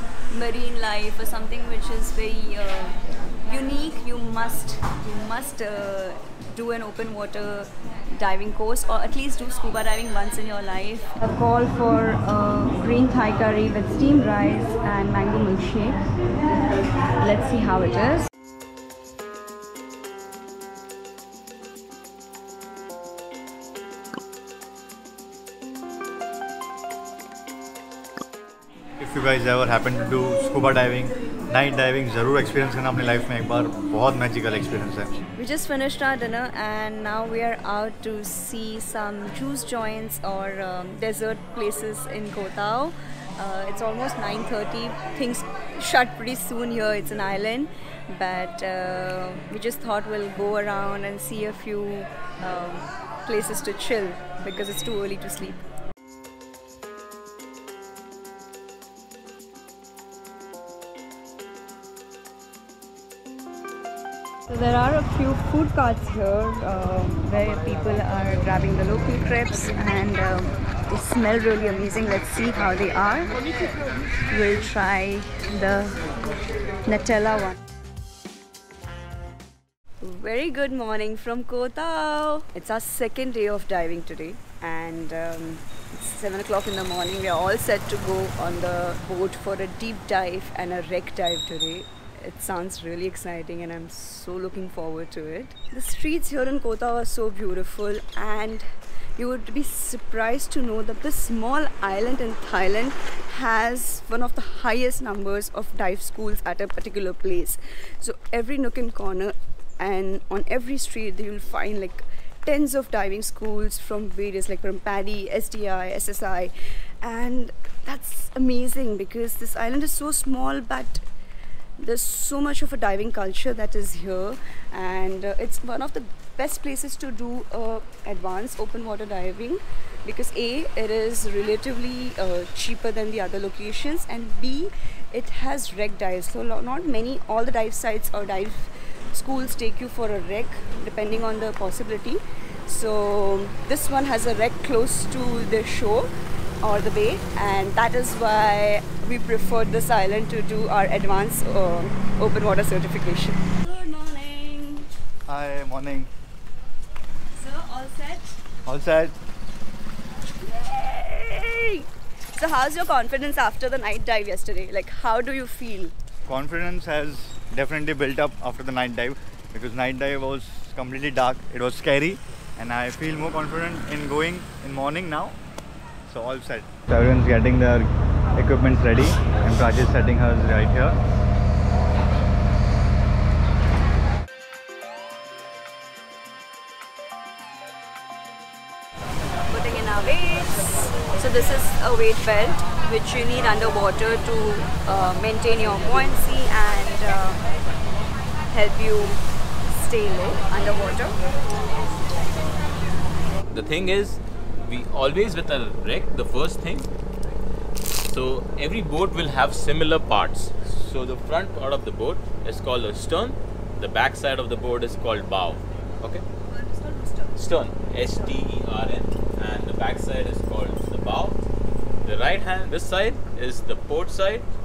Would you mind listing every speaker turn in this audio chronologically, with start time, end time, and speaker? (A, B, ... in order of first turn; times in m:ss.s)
0:00.3-0:16.1 A
0:17.2-0:18.3 A
0:29.0-0:35.2 B
0:35.4-0:55.7 A
1:04.5-1:13.4 A
1:14.3-1:16.1 A
1:16.8-1:17.6 A
1:20.0-2:01.0 A
2:01.8-2:26.1 A
2:26.6-2:34.9 A
2:35.3-2:36.1 B
2:37.3-2:38.4 A
2:38.7-2:39.2 B
2:40.4-2:45.9 A
2:46.3-2:55.4 B
2:56.1-3:01.0 B
3:09.5-3:17.4 A
3:18.5-3:21.2 A
3:23.5-3:26.9 C
3:28.0-3:36.2 C
3:36.4-3:38.4 A
3:37.4-3:41.4 C
3:42.0-3:44.5 C